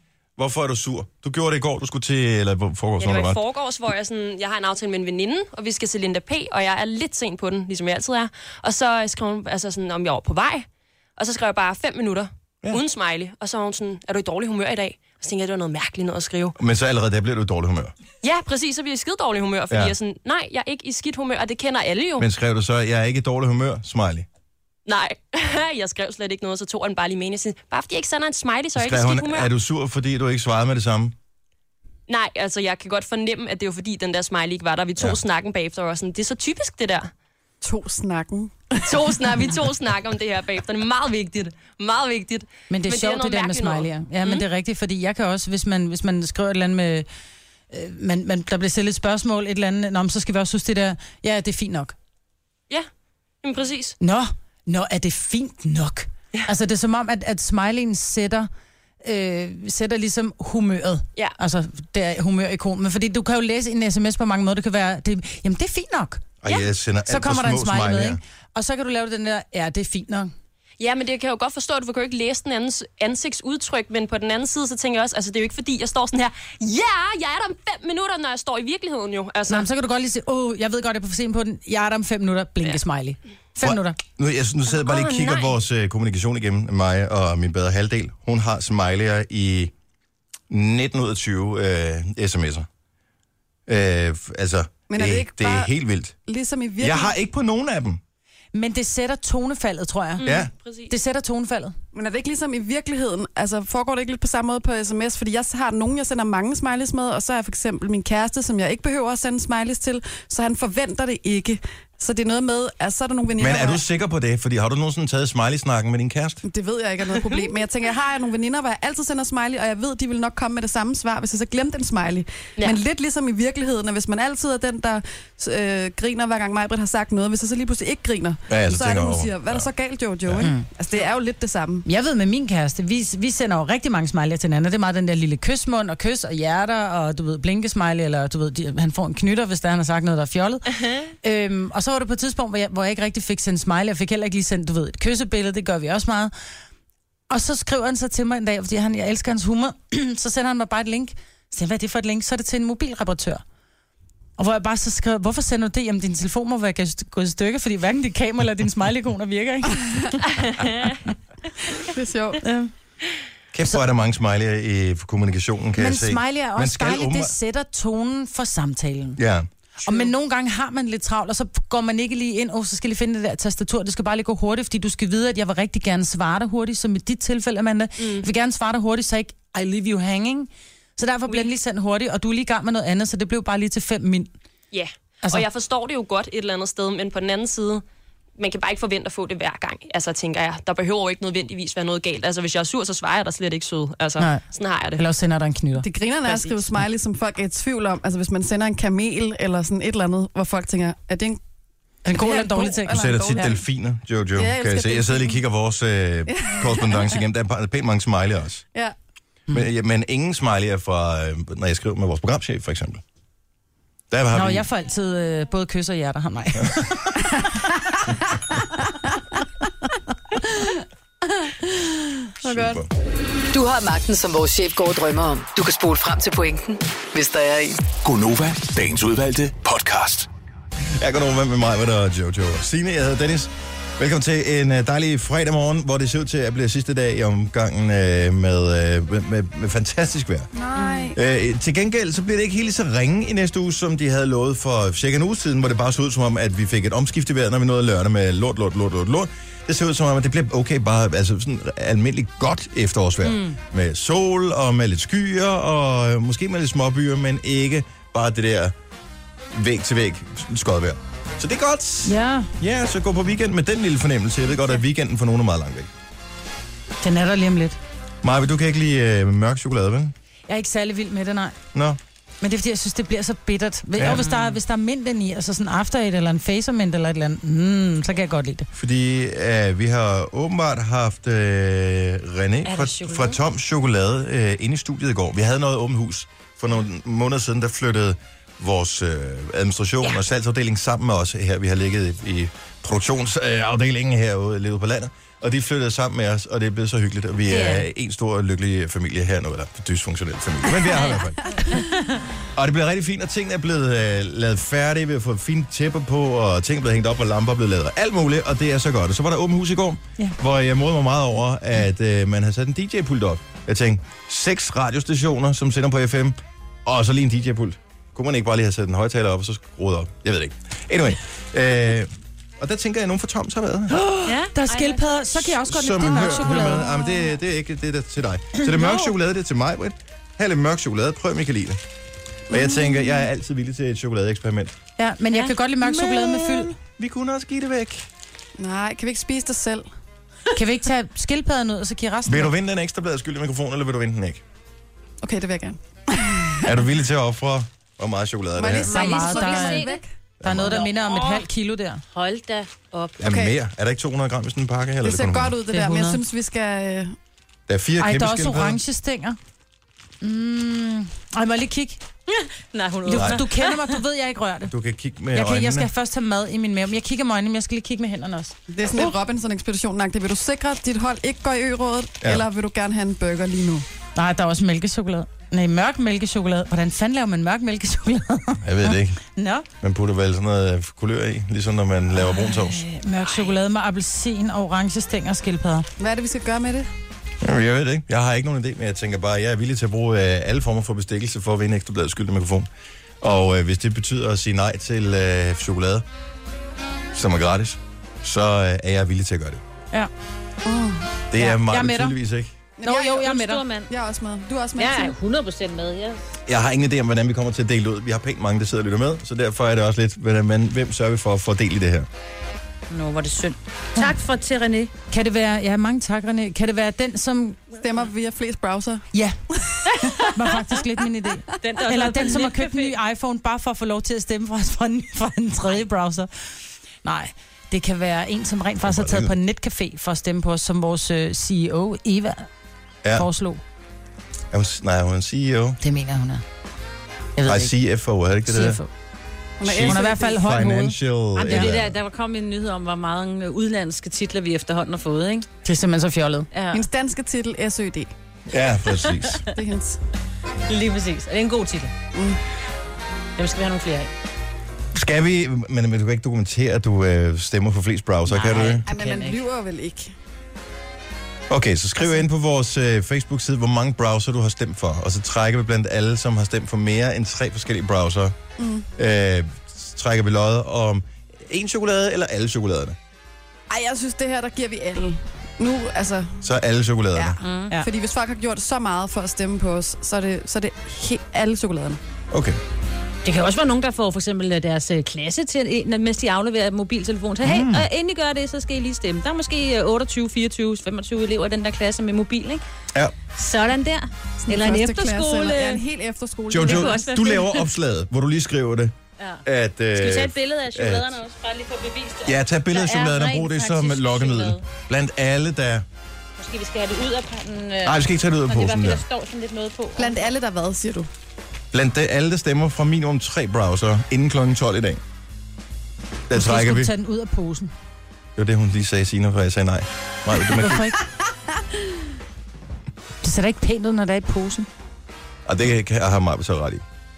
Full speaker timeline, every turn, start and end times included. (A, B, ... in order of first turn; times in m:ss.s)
0:00.4-0:03.4 A
0:03.0-0:10.6 B
0:11.2-0:16.6 B
0:16.6-0:17.9 A
0:18.2-0:22.3 B
0:22.2-0:24.3 A
0:24.8-0:29.5 B
0:28.8-0:31.1 A
0:32.1-0:37.1 B
0:37.6-0:39.4 C
0:38.8-0:44.4 B
0:42.7-0:47.1 D
0:47.7-0:51.9 D
0:53.4-0:54.0 B
0:54.0-0:58.5 D
0:59.0-1:06.2 D
1:06.4-1:08.2 A
1:07.1-1:10.3 D
1:10.8-1:19.7 B
1:19.5-1:24.0 D
1:23.6-1:29.7 A
1:24.7-1:25.5 B
1:30.5-1:32.7 A
1:33.7-1:36.2 A
1:34.9-1:35.7 C
1:36.2-1:37.1 C
1:36.8-1:38.0 A
1:38.5-1:40.3 D
1:40.2-1:40.9 B
1:40.2-1:40.5 A
1:40.9-1:41.7 D
1:41.9-1:53.8 C
1:53.4-1:56.4 A
1:56.4-2:11.8 C
2:08.5-2:09.7 A
2:10.2-2:10.5 A
2:10.4-2:10.6 D
2:11.8-2:20.7 D
2:20.7-2:21.1 B
2:21.2-2:26.3 D
2:27.3-2:33.4 D
2:34.4-2:41.0 D
2:41.8-2:42.4 C
2:42.4-2:42.7 D
2:43.5-2:47.3 A
2:45.8-2:49.2 D
2:49.2-2:49.5 A
2:49.8-3:04.3 D
2:58.0-2:58.2 B
3:04.7-3:07.8 B
3:08.4-3:15.0 B
3:15.0-3:15.8 D
3:15.8-3:21.4 C
3:22.0-3:23.5 D
3:22.1-3:23.6 C
3:22.9-3:28.6 A
3:24.4-3:25.4 C
3:26.3-3:27.2 C
3:29.5-3:33.0 A
3:34.1-3:34.6 A
3:34.3-3:37.4 D
3:41.3-3:42.8 C
3:42.4-3:42.9 A
3:43.5-3:47.8 E
3:48.0-3:50.3 F
3:50.8-4:00.5 A
4:00.5-4:01.1 D
4:01.1-4:18.7 A
4:19.5-4:25.9 A
4:22.0-4:22.5 D
4:27.0-4:27.8 D
4:28.2-4:30.1 A
4:30.5-4:31.6 D
4:31.7-4:32.0 A
4:32.4-4:38.7 D
4:34.0-4:34.2 A
4:34.0-4:34.6 G
4:38.7-5:01.5 A
4:42.6-4:43.4 G
4:57.5-4:57.8 G
5:01.7-5:02.2 G
5:02.5-5:24.0 A
5:23.9-5:26.9 D
5:24.2-5:25.3 G
5:25.6-5:31.8 A
5:28.6-5:29.1 D
5:32.5-5:34.7 A
5:35.0-5:36.7 D
5:36.0-5:38.0 A
5:38.6-5:39.8 C
5:40.5-5:42.5 D
5:42.2-5:44.4 A
5:45.2-5:46.6 C
5:46.6-5:49.0 A
5:48.6-5:50.0 C
5:48.8-5:50.0 G
5:48.9-5:49.9 D
5:50.4-5:50.8 A
5:50.4-5:52.0 D
5:50.6-5:51.5 G
5:52.1-5:53.2 G
5:53.2-5:55.6 A
5:53.2-5:53.5 C
5:55.0-5:57.2 C
5:55.7-5:56.2 D
5:57.7-5:58.8 A
5:58.0-5:59.4 D
6:00.2-6:02.0 D
6:02.3-6:04.0 G
6:03.0-6:04.7 D
6:03.1-6:03.4 A
6:04.7-6:05.9 A
6:05.3-6:08.5 D
6:08.7-6:13.8 C
6:14.2-6:19.6 D
6:18.6-6:19.2 A
6:19.8-6:22.8 A
6:22.9-6:25.9 D
6:26.0-6:26.9 C
6:27.4-6:32.7 A
6:33.2-6:36.0 A
6:37.1-6:39.6 A
6:40.6-6:41.1 C
6:41.3-6:42.6 A
6:41.3-6:42.2 D
6:42.8-6:43.3 C
6:42.8-6:43.6 D
6:43.0-6:43.9 G
6:43.9-6:45.2 C
6:44.8-6:46.2 G
6:46.5-6:52.1 A
6:52.9-6:54.9 G
6:55.1-6:57.6 D
6:57.8-6:59.0 C
7:00.1-7:06.3 D
7:01.6-7:02.9 G
7:07.0-7:12.5 D
7:08.8-7:09.3 A
7:13.1-7:13.6 D
7:14.5-7:15.8 A
7:15.8-7:16.4 D
7:17.4-7:17.7 D
7:17.4-7:18.8 A
7:18.4-7:18.9 D
7:19.6-7:20.4 C
7:19.6-7:22.0 A
7:19.8-7:21.7 D
7:21.4-7:25.5 G
7:25.6-7:26.5 D
7:26.5-7:26.8 G
7:26.7-7:28.1 C
7:28.5-7:29.4 A
7:29.5-7:30.0 C
7:30.7-7:31.9 G
7:32.1-7:32.4 C
7:33.4-7:34.1 G
7:34.9-7:38.8 A
7:38.3-7:39.4 G
7:38.8-7:40.1 C
7:41.5-7:48.4 A
7:48.6-7:48.9 C
7:49.0-7:53.0 A
7:53.7-7:56.4 C
7:56.4-7:57.4 A
7:57.1-8:02.0 C
7:57.4-7:57.8 G
8:02.3-8:02.6 A
8:03.2-8:12.6 G
8:07.4-8:07.9 A
8:13.3-8:15.8 G
8:14.4-8:17.2 C
8:16.5-8:21.1 A
8:16.6-8:17.7 G
8:19.9-8:24.6 G
8:22.2-8:25.8 A
8:26.4-8:30.3 G
8:27.8-8:29.0 A
8:30.0-8:31.1 C
8:31.7-8:35.0 A
8:36.3-8:36.9 A
8:36.3-8:37.7 D
8:38.4-8:40.9 A
8:40.5-8:41.0 D
8:43.2-8:44.7 D
8:45.4-8:46.8 A